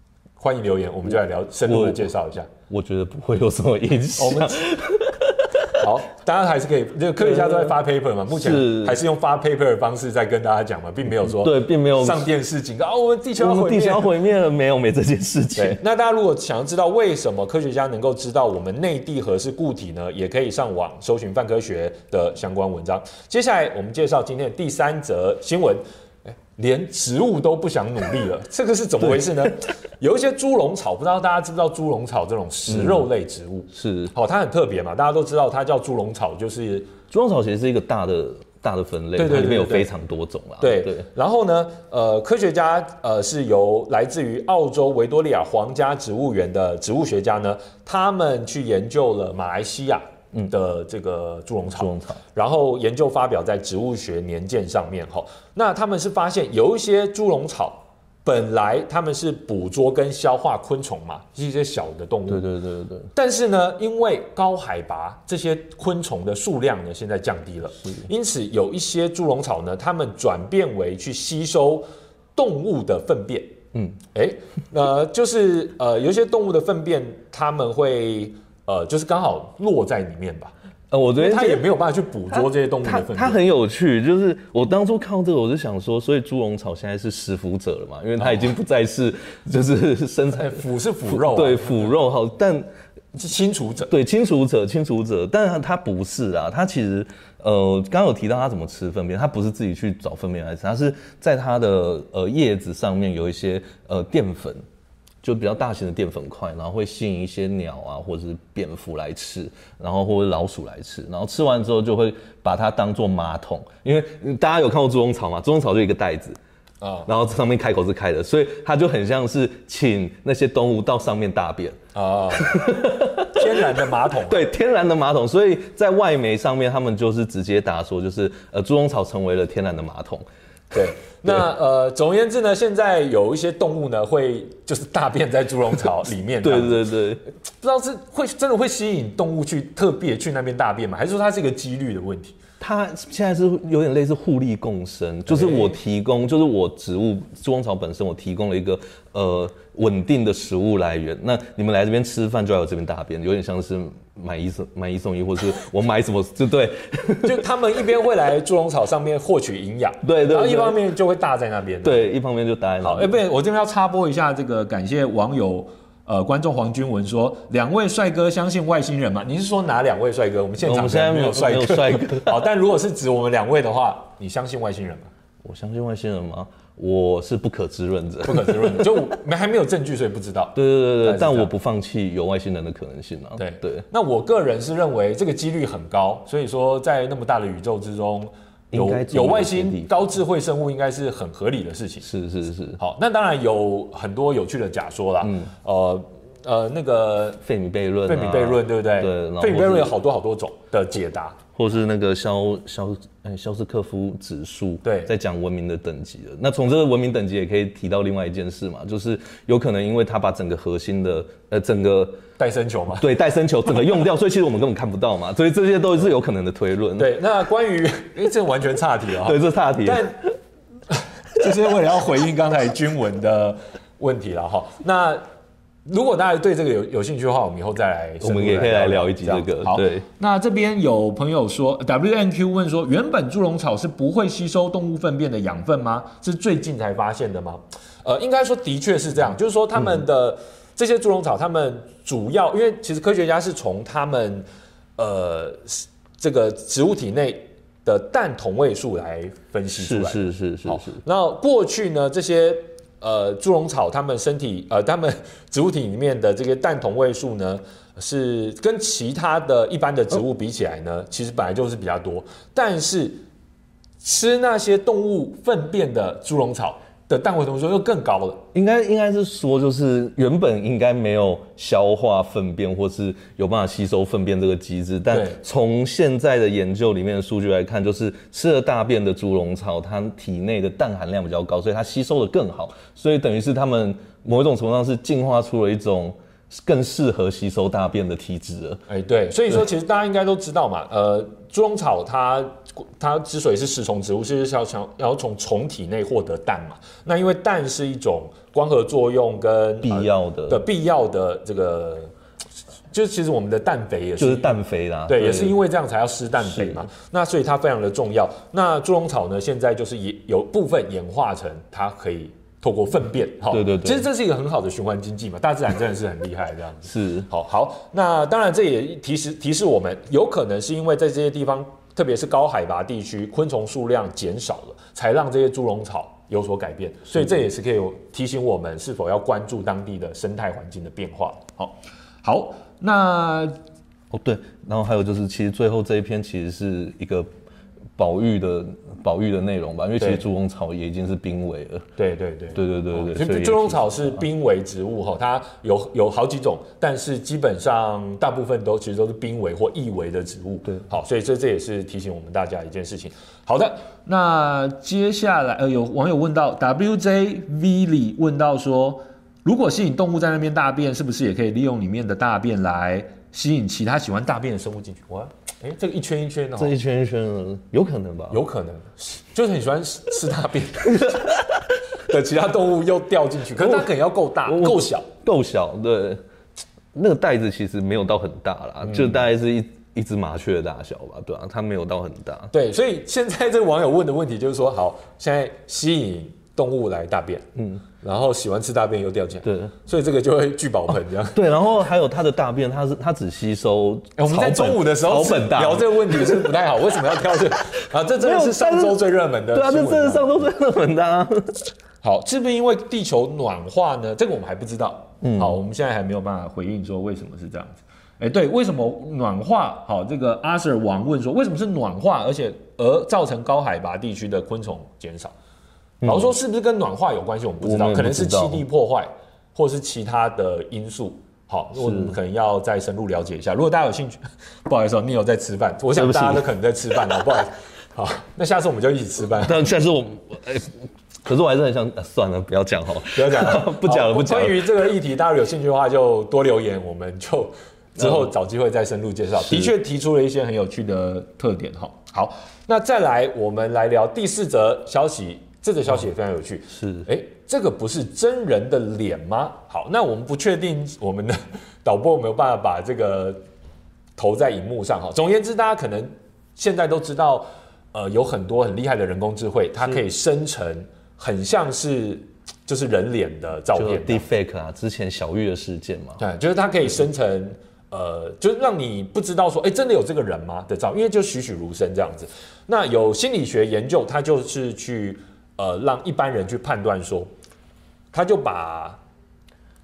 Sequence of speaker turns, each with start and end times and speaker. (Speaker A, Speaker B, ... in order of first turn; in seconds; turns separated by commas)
Speaker A: 0.4-2.5, Speaker B: 1.6-2.1, Speaker B: 2.7-5.8, Speaker A: 4.2-4.6, Speaker A: 5.8-14.1, Speaker B: 7.2-7.8, Speaker B: 8.3-9.0, Speaker B: 11.2-12.3, Speaker B: 13.4-15.8, Speaker A: 15.6-36.9, Speaker B: 32.7-33.1, Speaker B: 33.7-34.1, Speaker B: 37.1-41.0, Speaker A: 39.2-39.9, Speaker A: 40.6-62.5, Speaker B: 51.8-52.2, Speaker B: 62.3-63.1, Speaker A: 63.1-71.8, Speaker A: 72.4-73.6, Speaker A: 74.1-80.5, Speaker B: 80.9-81.7, Speaker A: 81.2-83.4, Speaker B: 82.3-92.7, Speaker A: 88.2-88.5, Speaker A: 90.3-91.9, Speaker A: 93.1-93.9, Speaker B: 93.9-104.6, Speaker B: 105.2-116.4, Speaker A: 116.8-117.1, Speaker B: 117.1-121.8, Speaker A: 122.0-122.7, Speaker B: 122.3-130.2, Speaker A: 123.2-124.5, Speaker A: 130.7-136.9, Speaker B: 136.4-137.2, Speaker A: 137.6-142.4, Speaker B: 142.6-157.4, Speaker A: 145.3-145.8, Speaker A: 157.2-162.1, Speaker B: 160.0-160.8, Speaker B: 161.8-163.1, Speaker A: 162.8-175.1, Speaker B: 170.6-172.4, Speaker B: 175.4-179.0, Speaker A: 178.2-181.5, Speaker B: 180.6-183.8, Speaker A: 183.4-192.1, Speaker B: 188.7-189.9, Speaker B: 192.0-192.8, Speaker A: 192.8-197.4, Speaker B: 195.2-195.5, Speaker B: 197.4-199.9, Speaker A: 198.1-201.4, Speaker B: 201.6-212.2, Speaker A: 204.8-205.1, Speaker A: 212.4-213.1, Speaker B: 213.0-217.1, Speaker A: 217.0-220.2, Speaker B: 219.2-220.2, Speaker A: 220.9-225.2, Speaker A: 225.9-244.4, Speaker B: 228.2-230.1, Speaker A: 245.0-263.2, Speaker B: 249.8-251.0, Speaker A: 264.0-268.4, Speaker B: 268.5-288.8, Speaker A: 275.1-275.4, Speaker A: 288.9-302.1, Speaker B: 299.8-300.6, Speaker A: 302.9-333.6, Speaker B: 304.2-305.6, Speaker B: 306.4-306.8, Speaker B: 313.5-314.1, Speaker B: 316.9-317.3, Speaker B: 334.1-337.3, Speaker B: 338.0-341.9, Speaker A: 342.0-366.8, Speaker B: 342.5-344.2, Speaker B: 366.6-368.4, Speaker A: 368.3-371.3, Speaker B: 370.9-371.2, Speaker A: 372.0-375.1, Speaker B: 373.6-373.9, Speaker B: 374.4-376.2, Speaker B: 376.9-382.5, Speaker A: 378.8-379.2, Speaker A: 382.5-391.4, Speaker B: 387.6-387.8, Speaker B: 389.4-389.7, Speaker B: 391.3-396.6, Speaker A: 394.2-400.5, Speaker B: 398.2-399.0, Speaker B: 399.5-401.5, Speaker A: 402.0-415.4, Speaker B: 405.2-405.6, Speaker B: 416.0-416.3, Speaker A: 416.0-429.6, Speaker B: 417.6-418.6, Speaker B: 421.8-422.1, Speaker B: 425.9-426.4, Speaker B: 429.4-434.7, Speaker A: 433.1-453.4, Speaker B: 438.0-438.3, Speaker B: 446.7-447.1, Speaker A: 454.2-464.3, Speaker B: 463.7-466.2, Speaker A: 466.2-477.3, Speaker A: 478.1-479.0